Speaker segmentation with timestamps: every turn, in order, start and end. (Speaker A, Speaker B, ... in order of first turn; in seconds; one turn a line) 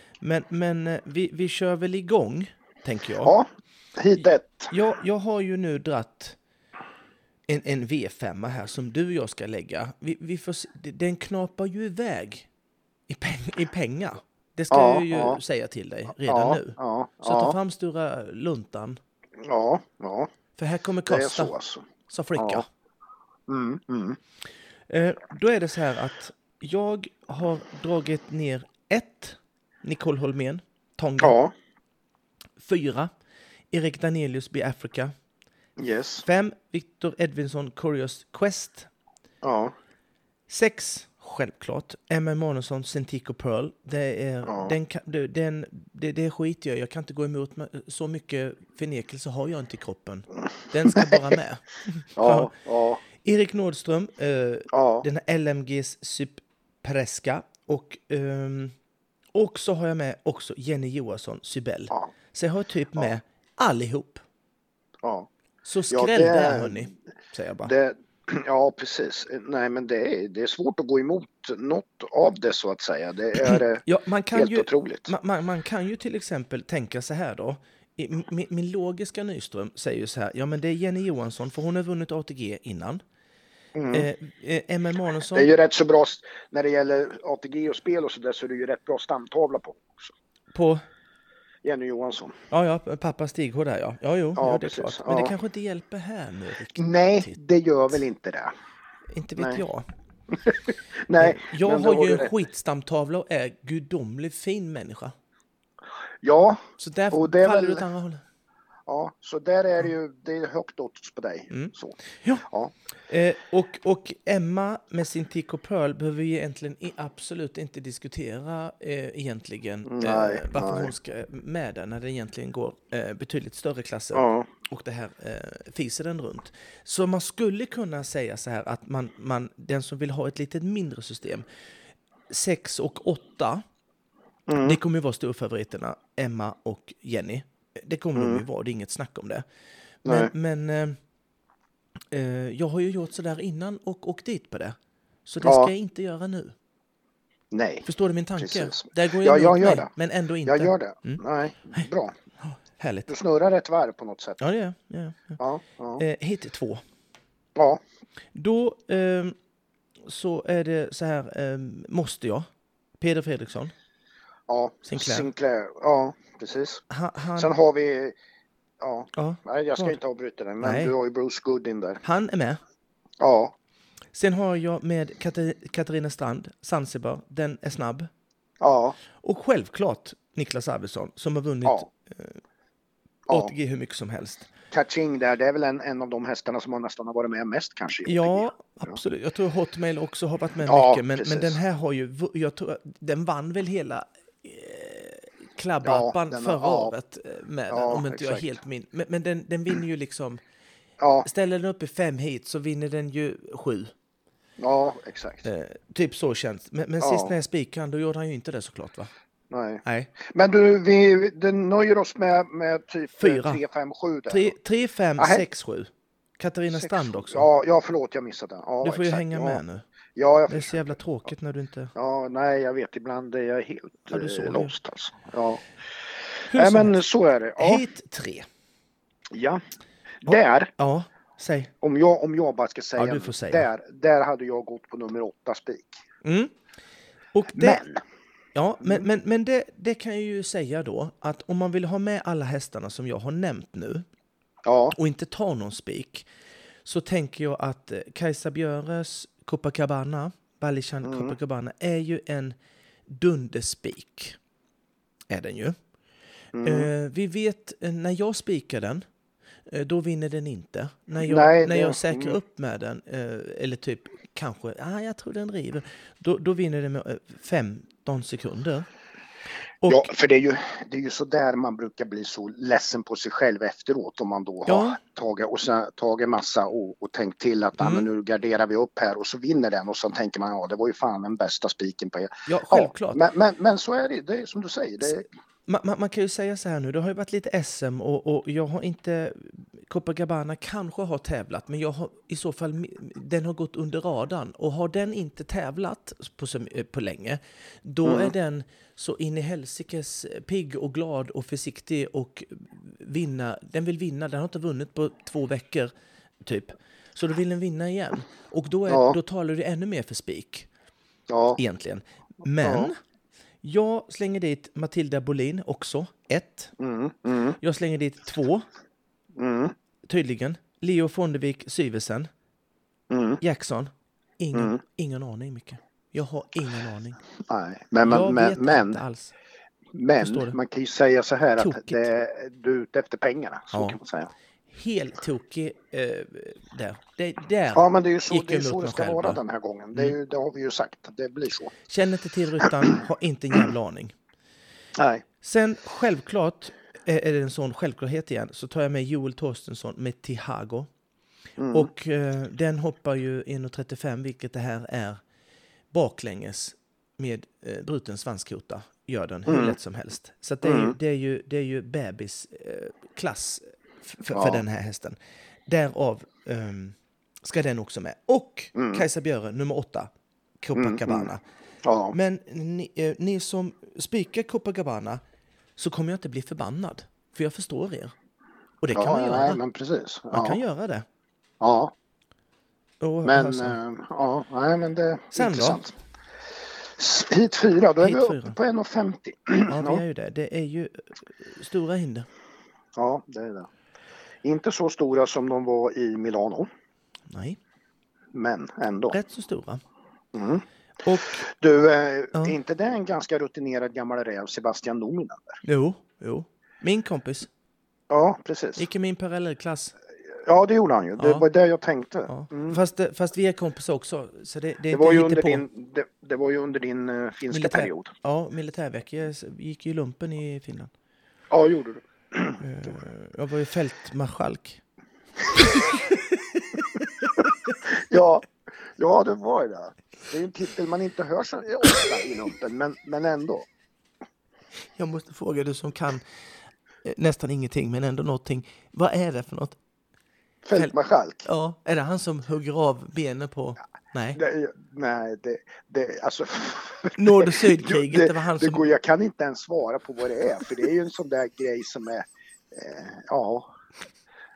Speaker A: 0.2-3.3
Speaker B: 3.2-4.7
Speaker A: 4.2-6.4
Speaker A: 7.5-12.5
Speaker A: 13.1-19.0
Speaker B: 14.7-15.4
Speaker B: 16.3-17.6
Speaker B: 19.4-20.3
Speaker A: 20.6-21.5
Speaker B: 21.1-21.8
Speaker A: 22.1-22.7
Speaker B: 22.4-22.6
Speaker B: 23.5-24.2
Speaker A: 24.9-31.4
Speaker B: 31.2-31.5
Speaker A: 32.6-33.1
Speaker A: 33.7-35.1
Speaker B: 35.8-36.2
Speaker A: 36.2-38.9
Speaker B: 39.4-39.7
Speaker A: 40.5-52.5
Speaker B: 44.5-44.7
Speaker B: 52.2-53.0
Speaker A: 53.1-58.7
Speaker B: 54.7-55.0
Speaker A: 59.3-64.2
Speaker B: 65.0-65.3
Speaker A: 65.6-67.7
Speaker B: 65.9-66.9
Speaker B: 67.6-75.1
Speaker A: 73.4-83.0
Speaker B: 83.7-84.1
Speaker A: 83.9-85.5
Speaker B: 85.3-90.1
Speaker A: 90.5-90.8
Speaker B: 91.6-92.3
Speaker A: 92.5-97.4
Speaker B: 94.4-95.3
Speaker B: 96.8-98.5
Speaker A: 99.1-99.9
Speaker B: 99.4-99.6
Speaker B: 100.3-102.3
Speaker A: 101.2-105.1
Speaker B: 106.2-106.6
Speaker A: 106.8-108.2
Speaker B: 107.1-107.8
Speaker B: 108.9-112.7
Speaker A: 111.5-112.5
Speaker A: 113.1-131.4
Speaker B: 119.8-120.9
Speaker B: 124.1-124.5
Speaker A: 132.3-133.6
Speaker B: 134.5-134.8
Speaker A: 134.6-139.4
Speaker B: 138.2-138.4
Speaker A: 140.0-141.0
Speaker B: 140.0-140.3
Speaker A: 142.1-146.5
Speaker B: 145.4-145.7
Speaker B: 147.5-147.9
Speaker A: 147.8-151.2
Speaker B: 148.4-149.9
Speaker B: 150.4-152.1
Speaker A: 152.5-153.1
Speaker B: 153.1-154.4
Speaker A: 154.4-155.4
Speaker B: 155.4-156.0
Speaker A: 156.0-156.8
Speaker A: 158.3-159.3
Speaker A: 160.0-162.5
Speaker A: 163.0-163.7
Speaker B: 164.5-166.8
Speaker A: 164.8-165.3
Speaker A: 166.9-167.5
Speaker B: 167.3-168.2
Speaker B: 168.8-172.0
Speaker A: 169.1-170.0
Speaker A: 170.6-170.9
Speaker A: 172.0-172.6
Speaker B: 173.2-173.5
Speaker A: 174.1-178.1
Speaker B: 178.6-179.0
Speaker A: 179.2-182.4
Speaker B: 183.3-183.5
Speaker A: 183.3-184.5
Speaker B: 184.7-189.0
Speaker A: 188.1-200.4
Speaker B: 190.6-191.6
Speaker B: 195.8-196.9
Speaker B: 197.7-198.6
Speaker B: 201.0-201.3
Speaker A: 201.2-203.9
Speaker B: 204.6-205.5
Speaker A: 205.4-209.1
Speaker B: 207.0-207.3
Speaker B: 209.5-214.5
Speaker A: 209.8-210.1
Speaker A: 213.2-213.6
Speaker A: 214.3-217.5
Speaker B: 215.2-215.4
Speaker B: 216.7-219.6
Speaker A: 218.8-219.8
Speaker B: 220.2-220.9
Speaker A: 220.5-221.9
Speaker B: 221.9-225.6
Speaker A: 224.1-224.7
Speaker B: 226.5-227.8
Speaker A: 226.5-227.0
Speaker A: 227.6-228.4
Speaker B: 229.3-229.6
Speaker B: 230.2-230.7
Speaker A: 230.3-231.7
Speaker B: 231.8-236.0
Speaker A: 233.0-233.7
Speaker A: 236.2-236.5
Speaker A: 237.3-237.8
Speaker B: 237.5-238.0
Speaker A: 238.5-244.0
Speaker B: 244.6-244.9
Speaker A: 244.9-246.3
Speaker A: 246.8-252.6
Speaker B: 251.0-251.3
Speaker A: 253.1-254.4
Speaker A: 255.3-255.8
Speaker B: 256.5-256.9
Speaker A: 256.6-259.0
Speaker A: 259.7-268.9
Speaker B: 261.2-262.4
Speaker A: 269.8-270.1
Speaker B: 269.9-285.3
Speaker A: 274.6-275.0
Speaker A: 277.8-278.1
Speaker A: 282.5-283.2
Speaker A: 285.0-305.9
Speaker B: 298.0-298.3
Speaker A: 306.4-310.7
Speaker B: 308.9-309.2
Speaker B: 311.3-311.6
Speaker A: 311.6-313.0
Speaker B: 312.6-312.9
Speaker A: 313.6-316.7
Speaker B: 316.8-317.6
Speaker A: 317.6-318.6
Speaker B: 319.4-319.7
Speaker A: 320.1-322.3
Speaker B: 323.1-323.4
Speaker A: 323.4-327.2
Speaker B: 324.5-324.8
Speaker B: 327.5-329.0
Speaker A: 328.0-329.4
Speaker B: 329.9-334.3
Speaker A: 330.2-330.6
Speaker A: 331.6-332.1
Speaker A: 334.7-339.4
Speaker B: 337.7-341.7
Speaker A: 341.9-344.1
Speaker B: 344.9-345.2
Speaker A: 345.4-350.9
Speaker B: 351.6-351.9
Speaker A: 351.7-355.2
Speaker A: 355.9-365.1
Speaker B: 359.5-359.8
Speaker B: 360.6-360.9
Speaker B: 364.3-364.6
Speaker A: 365.7-370.1
Speaker B: 368.7-369.0
Speaker A: 370.6-371.4
Speaker B: 370.7-371.3
Speaker B: 371.8-372.1
Speaker A: 372.1-375.2
Speaker A: 375.8-378.1
Speaker A: 378.8-379.6
Speaker B: 378.9-380.6
Speaker A: 380.3-381.0
Speaker B: 381.6-381.9
Speaker A: 383.0-383.8
Speaker B: 383.2-385.9
Speaker A: 385.3-385.8
Speaker B: 386.9-390.0
Speaker A: 388.0-388.6
Speaker A: 389.7-392.3
Speaker B: 392.9-393.7
Speaker B: 394.4-396.7
Speaker A: 397.3-397.6
Speaker B: 398.3-399.1
Speaker A: 399.1-399.8
Speaker B: 400.3-400.6
Speaker A: 401.0-401.4
Speaker B: 401.4-405.6
Speaker A: 405.6-407.5
Speaker B: 408.1-408.8
Speaker A: 408.8-409.9
Speaker B: 410.3-412.8
Speaker A: 411.2-411.4
Speaker A: 412.3-415.6
Speaker B: 414.9-418.1
Speaker A: 417.5-420.9
Speaker B: 421.5-422.9
Speaker A: 422.6-424.8
Speaker A: 425.6-426.8
Speaker B: 427.9-433.7
Speaker A: 434.9-436.2
Speaker A: 437.0-439.8
Speaker B: 440.6-441.5
Speaker A: 441.4-444.4
Speaker B: 444.3-453.7
Speaker A: 447.1-448.9